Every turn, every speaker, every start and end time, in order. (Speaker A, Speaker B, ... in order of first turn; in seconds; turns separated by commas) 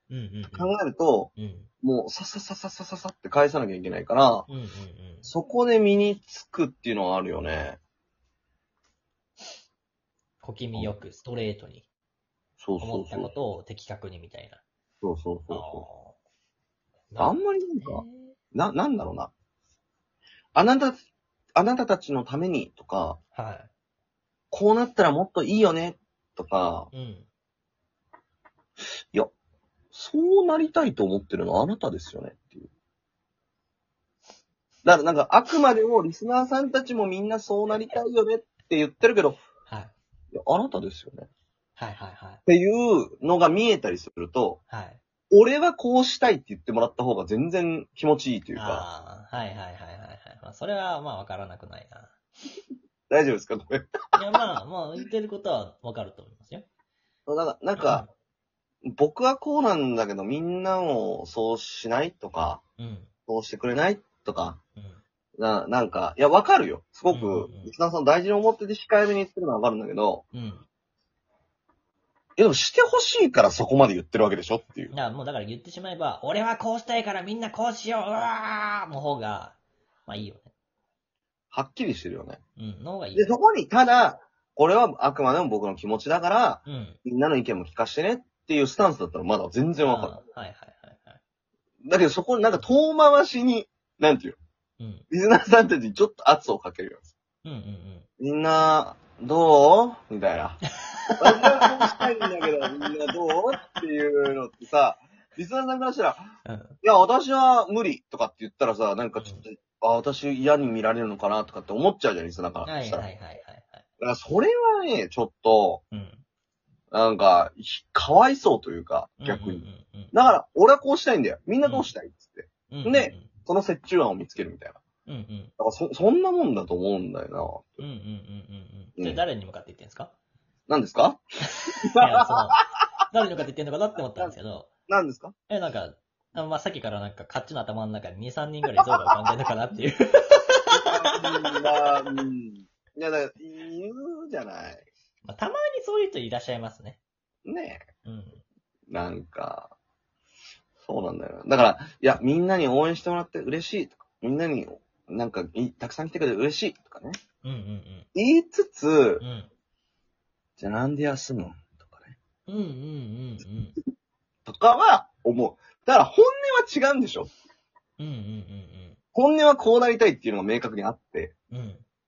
Speaker A: 0.1-0.7, Speaker B: 0.5-4.5, Speaker A: 1.4-1.7, Speaker A: 4.5-5.3, Speaker B: 5.2-7.8, Speaker A: 10.4-11.9, Speaker B: 10.8-11.0, Speaker B: 12.6-13.3, Speaker A: 12.8-14.6, Speaker B: 15.0-15.9, Speaker A: 15.5-16.2, Speaker A: 17.1-18.4, Speaker B: 17.2-19.3, Speaker B: 20.6-21.0, Speaker B: 21.6-23.2, Speaker A: 23.3-23.7, Speaker B: 24.5-26.9, Speaker A: 26.9-27.3, Speaker B: 29.9-32.7, Speaker B: 34.9-39.4, Speaker A: 39.7-39.9, Speaker B: 40.3-41.3, Speaker A: 41.8-42.4, Speaker B: 42.5-44.6, Speaker A: 44.7-45.0, Speaker B: 45.3-48.9, Speaker A: 48.6-52.1, Speaker B: 53.1-53.9, Speaker A: 54.2-56.7, Speaker B: 57.3-58.0, Speaker A: 57.8-58.1, Speaker B: 58.9-62.6, Speaker A: 62.8-63.1, Speaker B: 63.3-64.6, Speaker B: 65.4-70.2, Speaker A: 67.1-67.7, Speaker A: 70.3-70.7, Speaker B: 72.4-74.9, Speaker A: 74.9-80.5, Speaker B: 81.5-82.4, Speaker A: 82.6-83.4, Speaker B: 83.2-90.2, Speaker A: 86.7-87.0, Speaker A: 89.8-91.2, Speaker B: 91.8-94.4, Speaker A: 94.8-95.0, Speaker B: 95.1-97.1, Speaker A: 97.4-98.1, Speaker B: 98.2-100.6, Speaker A: 100.8-102.0, Speaker B: 101.2-106.3, Speaker A: 106.5-106.8, Speaker B: 106.8-113.1, Speaker A: 109.2-109.5, Speaker A: 112.7-113.8, Speaker B: 114.0-115.8, Speaker A: 115.9-116.2, Speaker B: 116.9-124.8, Speaker A: 119.2-120.2, Speaker A: 121.7-121.9, Speaker A: 122.7-123.3, Speaker A: 125.1-125.5, Speaker B: 125.6-127.8, Speaker A: 127.8-130.1, Speaker B: 129.0-129.2, Speaker B: 130.7-132.2, Speaker A: 131.5-134.7, Speaker B: 134.9-135.3, Speaker A: 135.5-141.9, Speaker B: 140.7-144.9, Speaker A: 145.2-147.0, Speaker B: 147.4-147.8, Speaker A: 148.1-148.4, Speaker B: 148.9-149.7, Speaker B: 150.8-157.2, Speaker A: 157.4-158.1, Speaker B: 158.2-159.2, Speaker A: 159.2-159.5, Speaker B: 160.6-162.2, Speaker A: 162.5-163.8, Speaker B: 164.5-167.3, Speaker A: 168.0-169.0, Speaker B: 169.2-171.3, Speaker A: 171.5-171.8